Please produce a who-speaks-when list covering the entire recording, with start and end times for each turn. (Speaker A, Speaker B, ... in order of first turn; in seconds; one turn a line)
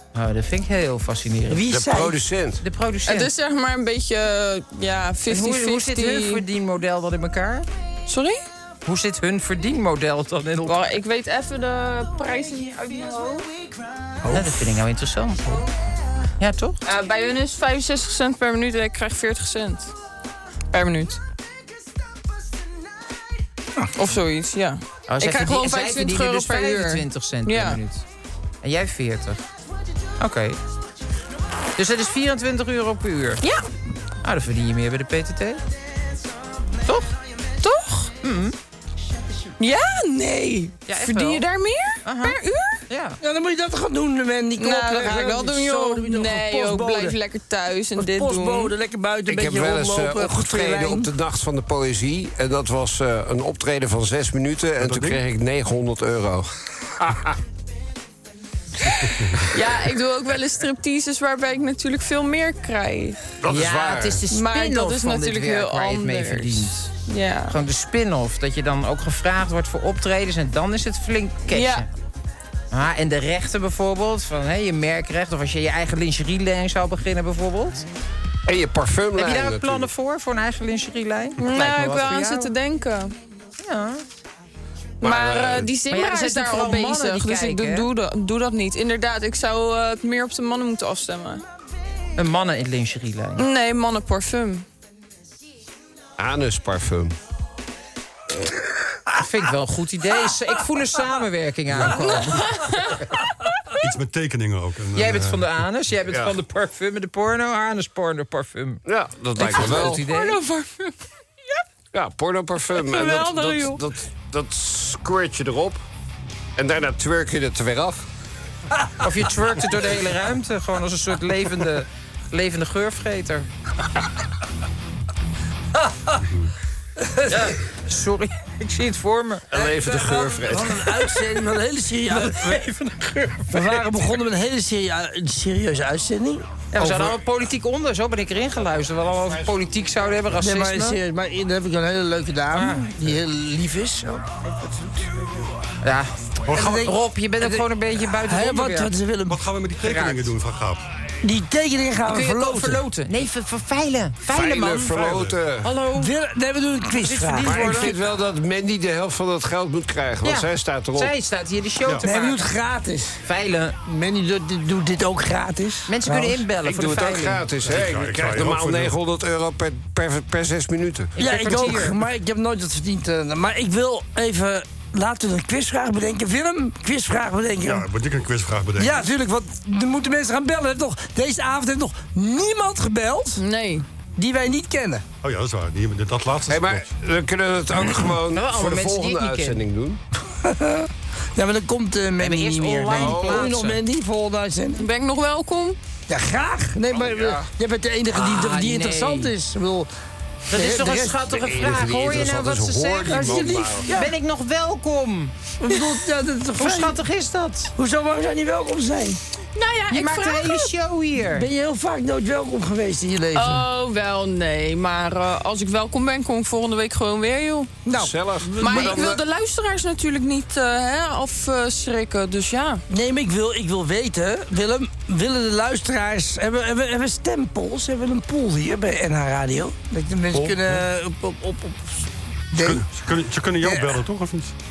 Speaker A: 0.1-1.6
Speaker B: 1.5-2.2
Speaker C: 1.7-2.6
Speaker A: 2.6-3.3
Speaker D: 3.0-6.4
Speaker A: 5.3-7.7
Speaker D: 8.1-8.4
Speaker A: 8.8-10.8
Speaker D: 10.6-13.5
Speaker B: 14.2-14.7
Speaker A: 14.3-15.5
Speaker A: 16.4-16.8
Speaker D: 16.8-19.9
Speaker D: 20.7-21.2
Speaker D: 23.9-27.8
Speaker A: 25.1-28.0
Speaker A: 28.6-29.4
Speaker A: 30.2-30.6
Speaker A: 31.8-33.4
Speaker A: 34.2-35.6
Speaker D: 37.6-38.1
Speaker A: 38.2-38.5
Speaker D: 39.6-42.8
Speaker A: 40.9-41.4
Speaker A: 42.0-43.2
Speaker B: 43.2-47.2
Speaker D: 44.6-48.7
Speaker B: 48.0-51.1
Speaker C: 49.2-57.4
Speaker E: 54.8-55.2
Speaker D: 58.9-63.3
Speaker C: 63.4-64.2
Speaker A: 63.5-66.8
Speaker D: 64.3-67.5
Speaker A: 67.5-71.9
Speaker D: 71.5-71.8
Speaker A: 72.7-77.8
Speaker C: 78.5-79.9
Speaker A: 79.2-82.5
Speaker D: 81.4-83.1
Speaker A: 83.6-84.0
Speaker C: 85.0-85.7
Speaker D: 85.0-91.4
Speaker A: 85.9-87.9
Speaker A: 92.2-93.4
Speaker D: 93.4-94.6
Speaker C: 96.2-97.2
Speaker A: 99.2-102.5
Speaker E: 101.7-102.4
Speaker D: 102.1-103.0
Speaker E: 103.8-105.5
Speaker A: 104.9-108.8
Speaker C: 106.1-106.3
Speaker C: 108.8-110.0
Speaker A: 109.3-110.4
Speaker D: 109.7-110.9
Speaker C: 111.9-115.8
Speaker D: 112.9-113.8
Speaker C: 116.5-118.0
Speaker A: 119.0-123.5
Speaker B: 127.0-127.3
Speaker A: 127.3-129.7
Speaker C: 129.5-130.9
Speaker B: 130.4-132.6
Speaker A: 132.1-133.8
Speaker B: 133.5-137.2
Speaker A: 136.7-141.0
Speaker C: 138.8-140.1
Speaker B: 140.4-145.3
Speaker A: 142.5-142.9
Speaker A: 145.8-148.9
Speaker B: 146.5-149.4
Speaker E: 146.5-146.8
Speaker E: 149.3-150.8
Speaker A: 149.8-150.3
Speaker B: 151.2-152.8
Speaker A: 152.1-156.1
Speaker C: 154.3-155.7
Speaker E: 154.9-155.4
Speaker B: 155.9-157.9
Speaker A: 156.9-157.9
Speaker C: 157.4-161.1
Speaker A: 160.2-162.5
Speaker B: 162.0-163.2
Speaker A: 163.2-163.8
Speaker B: 163.8-166.4
Speaker A: 165.9-167.5
Speaker C: 166.6-171.1
Speaker E: 167.6-168.9
Speaker B: 171.2-177.8
Speaker A: 171.2-172.0
Speaker E: 177.7-179.0
Speaker B: 178.8-183.4
Speaker D: 183.4-183.8
Speaker B: 184.2-185.0
Speaker E: 185.2-186.8
Speaker C: 186.5-190.0
Speaker A: 188.3-189.6
Speaker B: 190.3-194.8
Speaker A: 192.2-193.8
Speaker C: 192.9-193.5
Speaker D: 194.8-195.8
Speaker B: 196.1-199.9
Speaker C: 196.9-197.5
Speaker A: 198.1-199.3
Speaker A: 200.5-205.3
Speaker B: 200.5-201.2
Speaker C: 201.3-203.9
Speaker B: 203.1-204.1
Speaker B: 205.6-206.9
Speaker A: 206.6-207.7
Speaker B: 207.8-209.2
Speaker D: 209.6-210.7
Speaker A: 209.9-211.5
Speaker B: 211.2-213.7
Speaker D: 213.3-217.7
Speaker B: 217.8-219.1
Speaker C: 217.9-219.2
Speaker D: 218.6-222.8
Speaker B: 222.9-232.8
Speaker E: 230.3-230.8
Speaker E: 232.6-234.5
Speaker B: 233.6-234.0